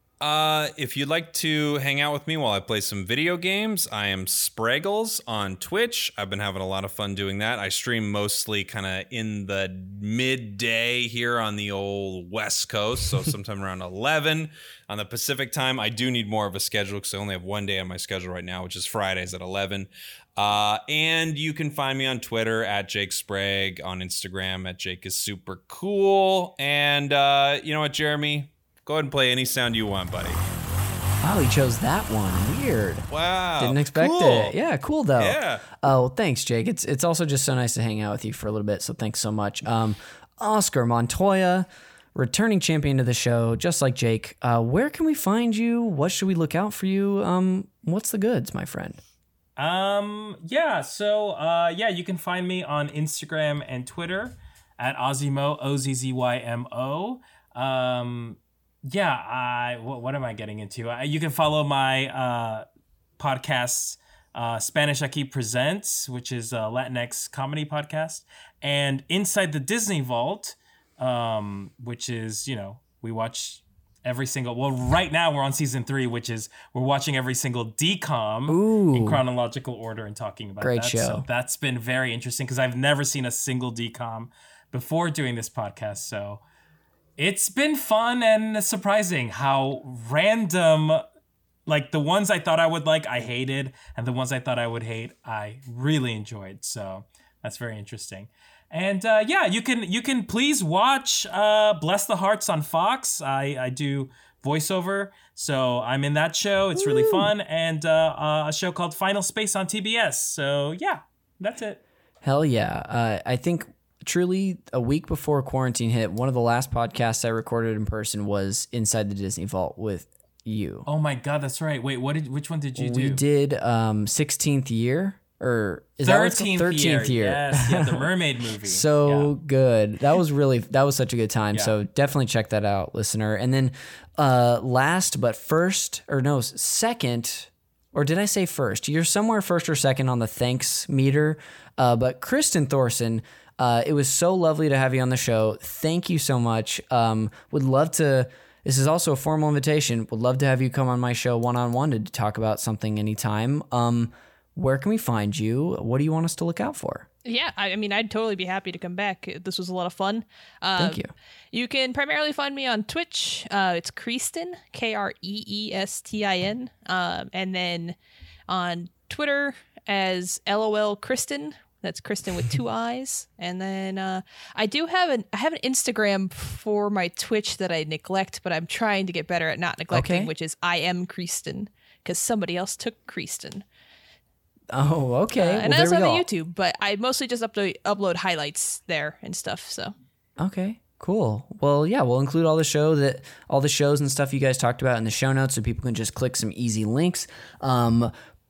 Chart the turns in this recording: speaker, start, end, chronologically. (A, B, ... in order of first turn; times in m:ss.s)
0:00.2-0:30.4 A
0:31.2-0:33.1 B
0:33.1-0:34.6 A
0:33.6-0:49.0 B
0:35.2-0:35.8 A
0:49.6-1:02.6 C
1:03.2-1:26.4 C
1:18.5-1:19.2 B
1:20.6-1:21.2 B
1:27.2-1:31.0 C
1:31.6-1:51.8 C
1:46.7-1:47.3 B
1:52.2-2:00.9 B
2:00.8-2:03.2 C
2:02.8-2:08.1 B
2:06.0-2:09.3 C
2:08.6-2:37.1 B
2:37.2-2:48.0 D
2:40.8-2:41.1 B
2:48.5-3:03.6 D
2:59.9-3:00.3 B
3:04.7-3:06.3 B
3:05.3-3:09.9 D
3:10.4-3:18.1 B